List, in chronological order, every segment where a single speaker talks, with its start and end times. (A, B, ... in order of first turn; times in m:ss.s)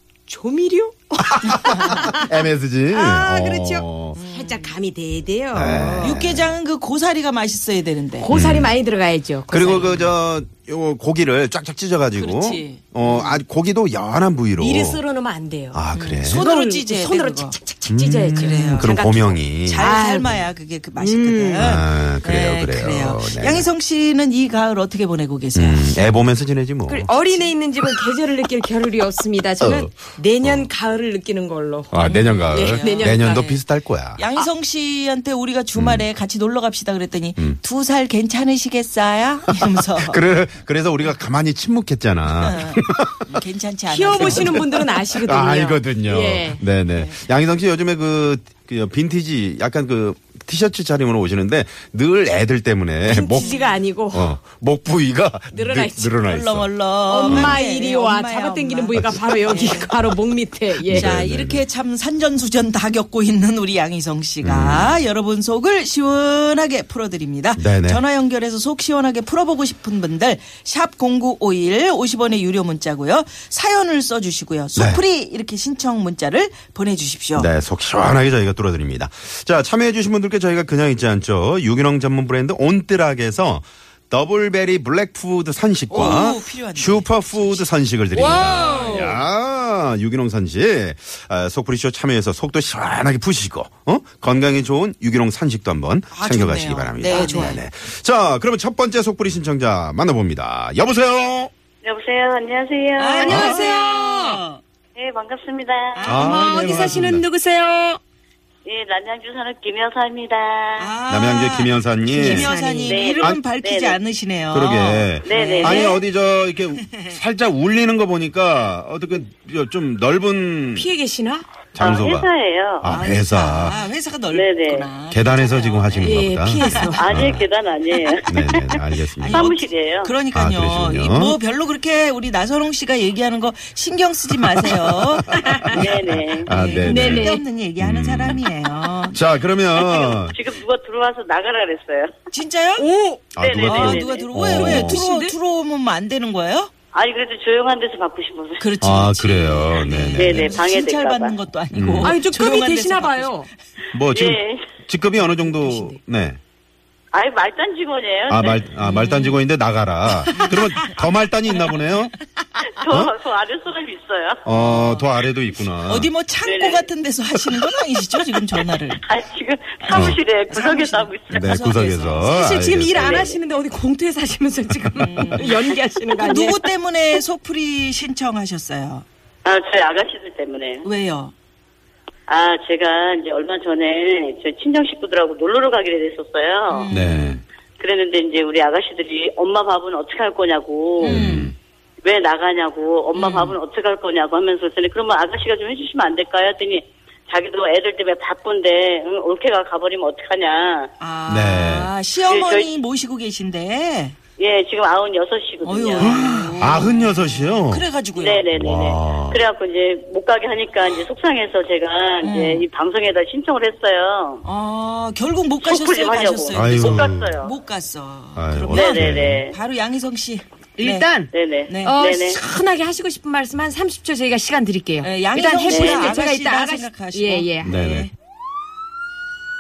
0:00.3-0:02.4 A
0:01.4-0:04.2 B
0:02.9-0:06.2 A
0:04.2-0:04.8 C
0:05.5-0:06.5 B
0:06.0-0:08.3 C
0:08.2-0:10.0 A
0:08.3-0:08.7 B
0:09.5-0:15.0 B
0:09.8-0:10.1 C
0:12.1-0:13.4 C
0:14.6-0:15.8 A
0:15.7-0:16.5 B
0:15.9-0:17.6 C
0:16.3-0:20.4 A
0:17.9-0:19.9 B
0:18.4-0:19.0 C
0:19.6-0:25.9 C
0:21.0-0:21.6 A
0:21.6-0:23.7 B
0:25.6-0:27.1 B
0:26.9-0:32.0 A
0:29.6-0:30.7 B
0:31.9-0:34.2 B
0:32.0-0:33.2 C
0:32.5-0:33.6 A
0:34.2-0:40.2 C
0:35.7-0:36.1 B
0:39.9-0:43.2 B
0:42.4-0:45.2 C
0:43.9-0:46.6 A
0:44.2-0:44.7 B
0:45.2-0:53.6 B
0:46.9-0:47.2 C
0:53.0-0:54.4 A
0:53.3-0:53.7 C
0:54.1-0:57.6 B
0:55.5-0:56.2 A
0:56.3-0:59.9 C
0:57.1-1:01.1 A
0:59.0-0:59.8 B
1:00.8-1:01.7 B
1:00.9-1:17.5 C
1:04.4-1:05.0 B
1:07.6-1:08.0 B
1:14.8-1:15.0 B
1:17.4-1:41.5 B
1:25.9-1:29.0 C
1:28.2-1:29.2 A
1:36.1-1:37.6 C
1:37.2-1:37.6 A
1:41.8-1:43.5 D
1:43.0-1:44.6 C
1:43.2-1:44.4 A
1:43.3-1:43.6 B
1:45.0-1:46.2 D
1:46.0-1:47.1 C
1:46.1-1:47.2 B
1:46.2-1:48.0 A
1:48.7-1:50.9 D
1:50.8-1:56.0 C
1:51.1-1:52.5 B
1:52.1-1:53.1 A
1:52.9-1:54.0 D
1:54.5-2:00.9 B
1:55.2-1:56.0 D
2:00.8-2:01.4 A
2:01.8-2:02.3 B
2:01.8-2:02.9 D
2:02.8-2:03.8 B
2:02.8-2:07.0 C
2:04.3-2:04.9 D
2:05.1-2:07.5 B
2:06.0-2:07.1 A
2:07.0-2:10.1 D
2:08.3-2:09.5 B
2:09.2-2:15.4 C
2:10.3-2:11.4 B
2:15.4-2:15.7 A
2:15.7-2:16.5 D
2:15.7-2:18.4 B
2:16.5-2:19.2 C
2:16.8-2:17.4 A
2:19.1-2:20.4 B
2:19.8-2:22.1 D
2:22.3-2:22.9 C
2:22.8-2:23.2 A
2:23.4-2:25.0 B
2:23.4-2:24.3 D
2:23.6-2:26.7 C
2:24.6-2:25.4 A
2:26.9-2:28.6 D
2:28.6-2:33.5 C
2:28.8-2:30.6 B
2:30.2-2:31.4 D
2:31.7-2:32.2 B
2:32.0-2:33.5 A
2:33.9-2:36.4 B
2:34.1-2:34.7 D
2:35.2-2:36.0 A
2:37.1-2:38.6 D
2:38.3-2:42.1 B
2:38.8-2:39.4 C
2:40.4-2:40.9 C
2:42.7-2:44.4 D
2:44.4-2:46.1 B
2:44.5-2:45.1 C
2:45.9-2:49.0 C
2:46.4-2:46.9 D
2:49.0-2:51.6 D
2:49.8-2:52.5 C
2:49.9-2:50.2 B
2:51.3-2:53.2 B
2:52.2-2:56.7 A
2:53.0-2:53.4 D
2:55.0-2:59.1 C
2:59.4-3:00.8 D
3:00.8-3:01.3 C
3:02.3-3:06.9 D
3:06.7-3:07.4 C
3:06.9-3:07.4 B
3:07.8-3:11.3 D
3:11.0-3:11.5 C
3:11.0-3:11.6 B
3:12.0-3:20.9 D
3:13.1-3:13.6 C
3:21.0-3:24.2 C
3:21.3-3:21.9 B
3:22.3-3:22.8 D
3:24.4-3:26.2 D
3:25.6-3:28.5 C
3:26.0-3:27.9 B
3:28.2-3:34.4 D
3:28.5-3:29.4 B
3:32.2-3:32.7 C
3:34.4-3:41.1 C
3:35.6-3:37.5 D
3:36.5-3:37.4 B
3:38.4-3:39.4 B
3:38.7-3:39.6 D
3:40.8-3:41.3 A
3:41.3-3:42.4 D
3:41.7-3:42.0 C
3:41.8-3:47.8 A
3:45.0-3:48.1 C
3:45.7-3:46.1 D
3:47.6-3:48.1 B